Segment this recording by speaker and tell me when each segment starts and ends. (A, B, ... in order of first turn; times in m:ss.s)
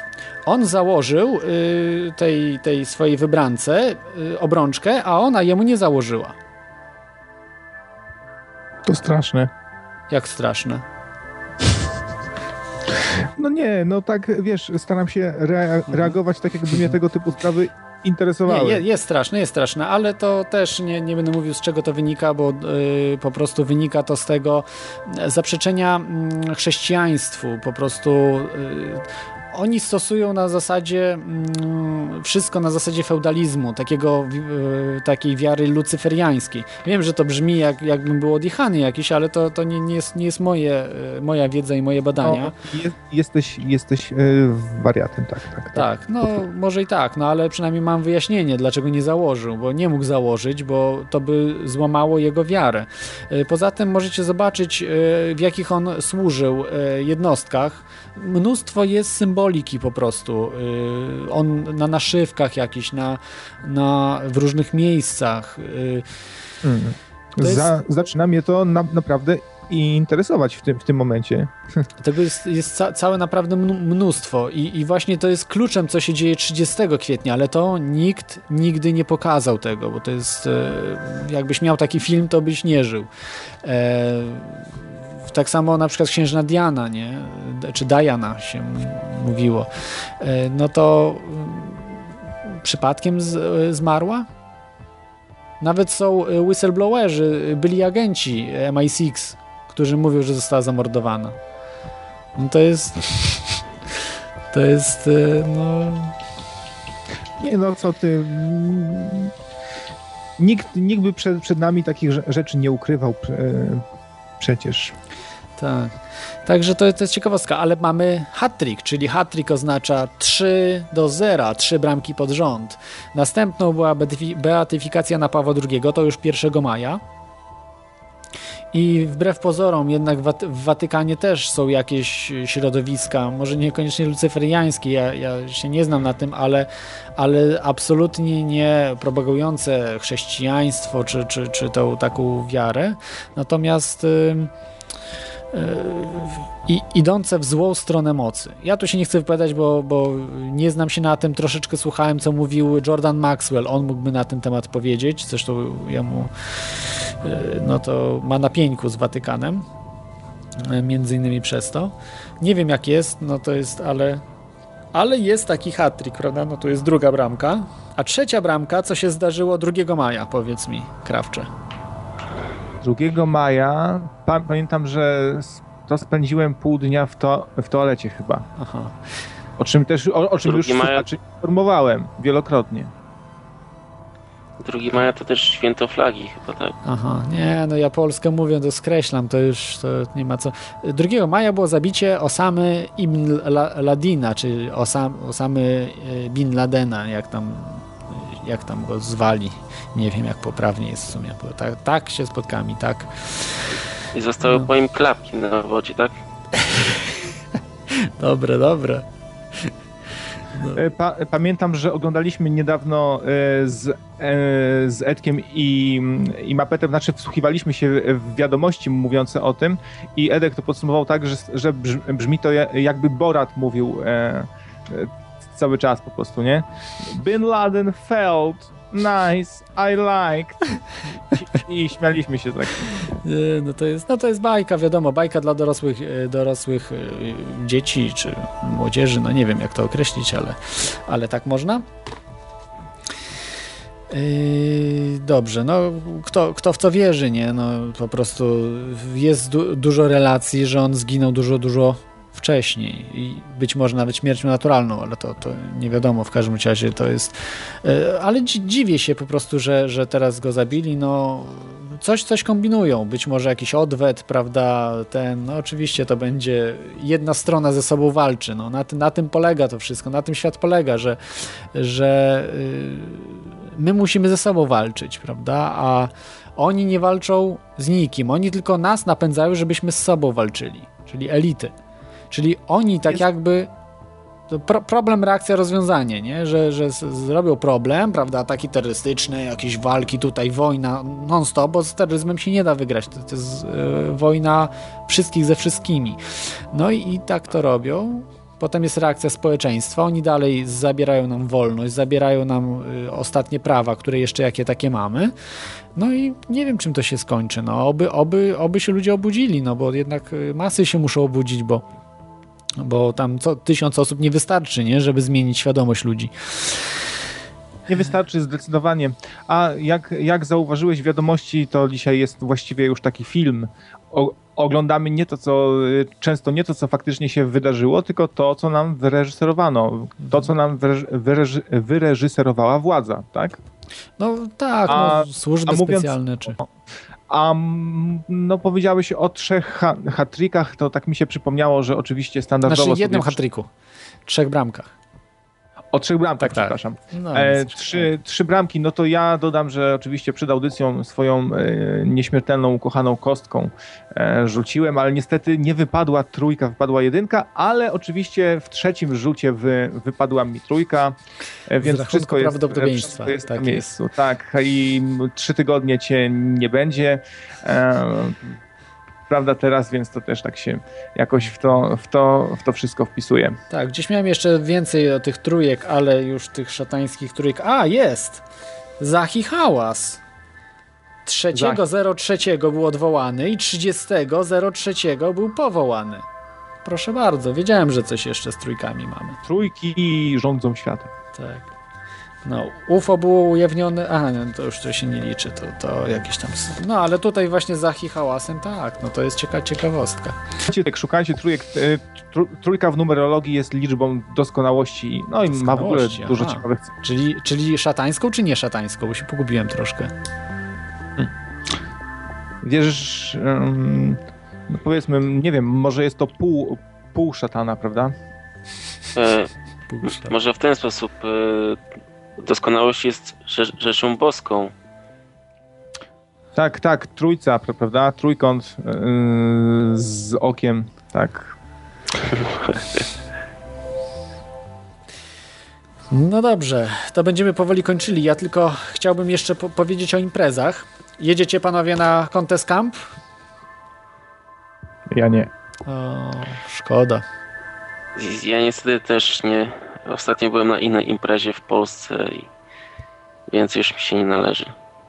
0:00.4-0:06.3 A
0:08.8-0:09.5 B
0:10.1-0:10.8 A
0:13.4-0:18.8 B
0:18.5-0:42.5 A
0:42.2-0:45.9 B
0:45.7-1:06.0 A
1:06.6-1:11.5 B
1:07.4-1:07.8 A
1:12.0-1:23.1 A
1:23.6-1:24.7 A
1:25.3-1:29.7 A
1:30.2-1:32.0 A
1:32.6-1:34.3 A
1:35.6-1:41.4 A
1:42.4-1:43.4 A
1:44.5-1:46.1 A
1:47.4-1:49.3 B
1:50.4-1:53.8 B
1:54.4-1:54.9 B
1:55.6-1:55.9 A
1:56.4-2:07.0 A
2:08.7-2:24.5 A
2:25.5-2:36.3 A
2:37.2-2:39.7 A
2:40.6-2:44.2 A
2:44.9-2:51.5 A
2:52.8-2:58.4 B
2:58.6-2:59.0 A
2:59.6-3:02.9 B
3:00.4-3:01.1 C
3:04.6-3:06.7 C
3:06.8-3:23.5 A
3:24.1-3:26.2 C
3:26.7-3:27.0 A
3:28.0-3:29.0 A
3:30.7-3:50.8 B
3:51.3-3:53.1 B
3:53.2-4:01.8 A
4:04.1-4:31.2 A
4:31.7-4:41.7 A
4:42.3-4:43.7 A
4:44.5-4:56.2 A
4:56.7-5:05.3 A
5:06.0-5:11.8 A
5:12.8-5:16.8 A
5:17.9-5:33.6 B
5:34.2-5:36.7 A
5:34.9-5:36.1 B
5:37.3-5:43.4 B
5:42.6-5:43.7 A
5:44.3-5:44.9 A
5:45.9-6:01.2 B
5:46.4-5:48.1 A
6:01.7-6:08.4 B
6:01.8-6:03.9 A
6:09.3-6:13.6 B
6:13.7-6:18.4 A
6:19.0-6:20.2 A
6:21.2-6:26.2 A
6:21.5-6:21.8 B
6:26.8-6:29.4 A
6:29.4-6:31.1 B
6:31.3-6:31.7 A
6:32.4-6:40.4 A
6:40.7-6:46.9 B
6:45.5-6:50.1 A
6:52.6-6:58.1 B
6:59.2-6:59.5 C
6:59.9-7:00.3 A
7:00.0-7:01.8 C
7:02.4-7:04.7 C
7:06.5-7:11.5 B
7:12.3-7:13.0 C
7:16.1-7:23.1 A
7:25.1-7:25.5 B
7:25.8-7:27.2 A
7:28.2-7:32.5 C
7:33.5-7:34.7 C